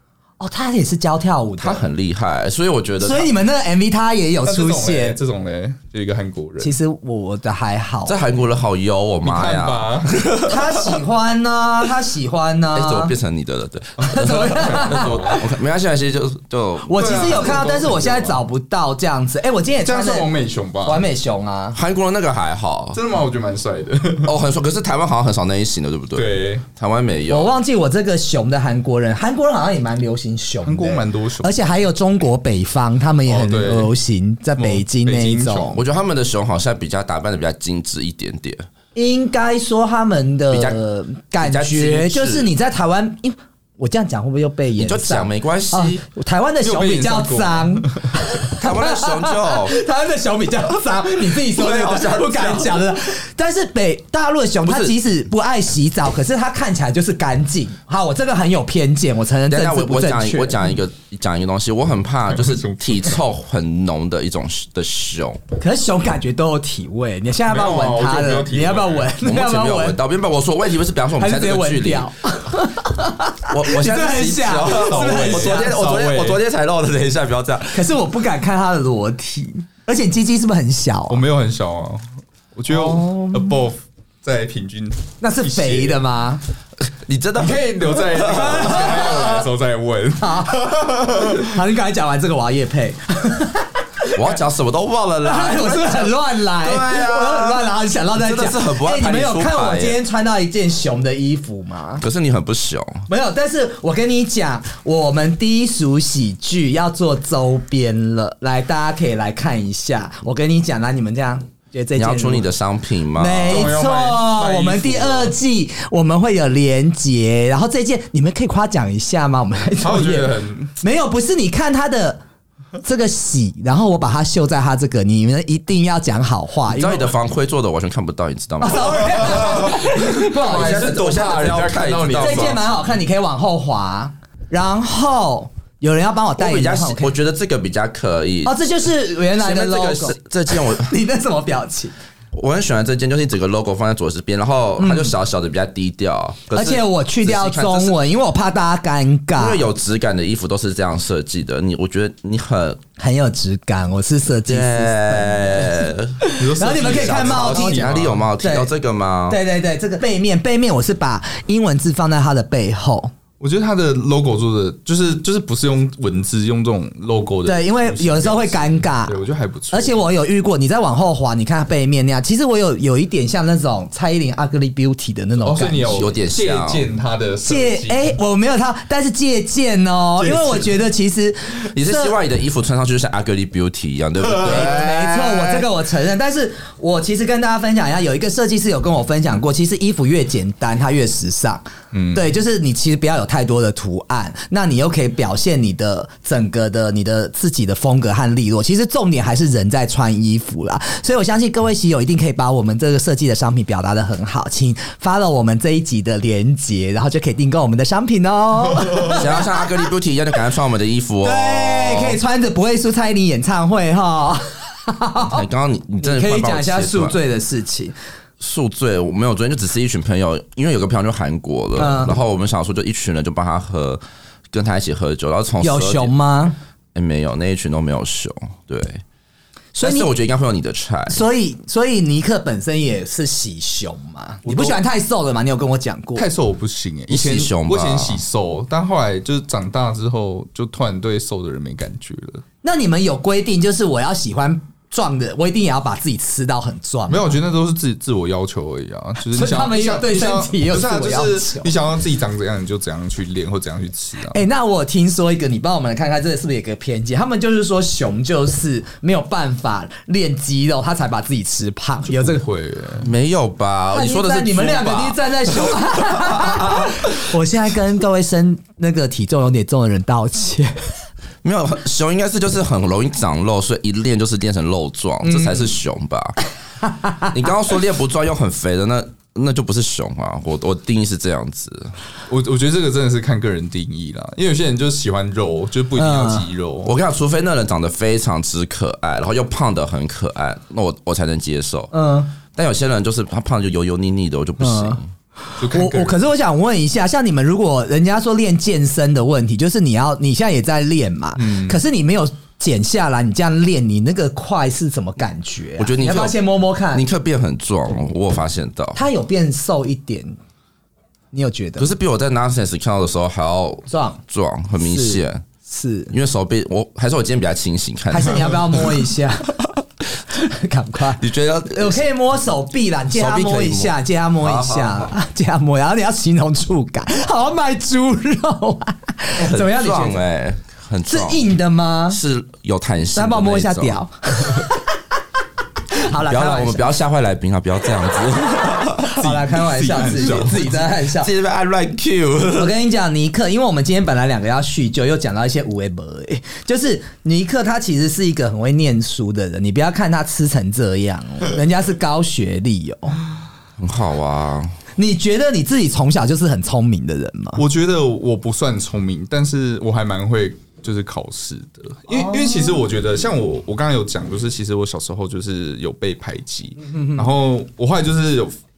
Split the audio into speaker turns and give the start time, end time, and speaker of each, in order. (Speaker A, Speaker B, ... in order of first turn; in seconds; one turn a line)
Speaker A: 0.4-1.9
Speaker B: 1.6-3.3
Speaker A: 3.0-5.2
Speaker C: 4.4-6.8
Speaker A: 6.6-8.2
Speaker B: 8.1-10.8
Speaker C: 9.2-10.2
Speaker A: 10.4-13.1
Speaker B: 12.7-17.6
Speaker C: 14.0-15.5
Speaker A: 14.0-15.1
Speaker A: 16.9-20.3
Speaker C: 16.9-18.4
Speaker C: 19.8-21.0
Speaker A: 20.8-21.8
Speaker B: 21.7-23.0
Speaker C: 22.9-24.3
Speaker B: 24.2-27.5
Speaker C: 26.1-26.6
Speaker A: 27.3-35.8
Speaker C: 30.6-31.5
Speaker C: 33.2-33.9
Speaker C: 34.6-35.8
Speaker B: 35.8-38.6
Speaker A: 38.9-60.7
Speaker B: 40.5-40.8
Speaker B: 41.4-42.5
Speaker B: 44.8-46.0
Speaker C: 46.6-48.2
Speaker B: 48.6-49.8
Speaker B: 51.5-52.8
Speaker B: 54.6-54.9
Speaker B: 59.5-65.4
Speaker C: 62.3-63.1
Speaker A: 65.6-70.0
Speaker C: 67.5-69.1
Speaker B: 69.2-72.1
Speaker A: 71.2-75.7
Speaker B: 73.5-77.8
Speaker C: 74.6-76.4
Speaker A: 77.7-81.2
Speaker C: 81.1-86.0
Speaker A: 82.7-83.6
Speaker A: 85.2-86.4
Speaker B: 86.9-89.0
Speaker C: 87.3-91.5
Speaker A: 88.3-89.4
Speaker A: 90.2-94.3
Speaker B: 94.1-100.0
Speaker A: 95.2-102.0
Speaker B: 102.0-103.1
Speaker A: 103.1-112.5
Speaker B: 112.0-113.7
Speaker A: 113.1-122.2
Speaker C: 113.5-115.3
Speaker C: 119.8-120.8
Speaker A: 122.8-127.1
Speaker B: 126.7-132.6
Speaker A: 128.6-130.9
Speaker C: 128.9-132.7
Speaker A: 132.2-137.1
Speaker B: 136.4-138.5
Speaker A: 138.4-141.9
Speaker B: 139.3-140.9
Speaker B: 142.3-148.0
Speaker A: 144.8-145.1
Speaker A: 146.5-149.6
Speaker B: 149.4-152.8
Speaker A: 153.0-158.7
Speaker B: 154.4-159.4
Speaker C: 156.3-158.2
Speaker A: 159.3-163.1
Speaker C: 163.4-170.0
Speaker A: 167.4-169.2
Speaker A: 169.7-176.1
Speaker C: 175.4-178.2
Speaker B: 175.9-176.9
Speaker A: 177.4-182.2
Speaker C: 180.2-180.8
Speaker B: 181.7-185.6
Speaker C: 184.3-184.7
Speaker A: 184.4-209.7
Speaker C: 191.9-192.2
Speaker B: 209.1-212.2
Speaker A: 211.2-215.4
Speaker B: 215.2-217.2
Speaker A: 216.0-217.9
Speaker B: 218.4-224.0
Speaker A: 221.8-222.2
Speaker B: 224.5-226.1
Speaker A: 225.6-226.6
Speaker B: 226.9-229.0
Speaker A: 229.7-230.1
Speaker B: 229.8-231.2
Speaker A: 231.1-236.2
Speaker C: 234.4-234.8
Speaker C: 236.2-242.4
Speaker B: 237.1-238.2
Speaker A: 242.6-247.3
Speaker C: 247.1-254.4
Speaker A: 249.3-251.7
Speaker A: 254.3-262.4
Speaker C: 262.1-263.1
Speaker B: 263.0-266.9
Speaker A: 263.9-270.9
Speaker B: 271.4-276.4
Speaker A: 275.2-275.7
Speaker A: 276.8-277.3
Speaker B: 277.2-281.9
Speaker C: 282.3-286.9
Speaker A: 286.0-286.5
Speaker B: 286.8-291.9
Speaker A: 291.9-292.3
Speaker B: 292.5-295.1
Speaker A: 294.6-295.0
Speaker C: 295.6-296.2
Speaker A: 295.7-307.0
Speaker C: 301.4-301.8
Speaker B: 305.8-306.4
Speaker B: 306.9-309.0
Speaker A: 308.9-310.4
Speaker A: 311.3-311.9
Speaker B: 311.8-315.4
Speaker A: 313.9-314.2
Speaker A: 314.8-316.1
Speaker B: 316.1-318.8
Speaker A: 318.1-319.7
Speaker A: 320.3-330.2
Speaker B: 321.2-322.0
Speaker B: 323.1-325.1
Speaker B: 329.4-331.5
Speaker A: 331.1-332.2
Speaker B: 332.1-334.6
Speaker A: 333.1-334.8
Speaker A: 335.9-336.9
Speaker B: 336.2-339.2
Speaker A: 339.1-341.3
Speaker C: 339.2-340.6
Speaker B: 340.3-342.7
Speaker A: 342.5-353.2
Speaker B: 353.8-354.7
Speaker A: 355.0-357.6
Speaker C: 357.6-368.6
Speaker A: 362.1-362.8
Speaker A: 366.9-367.2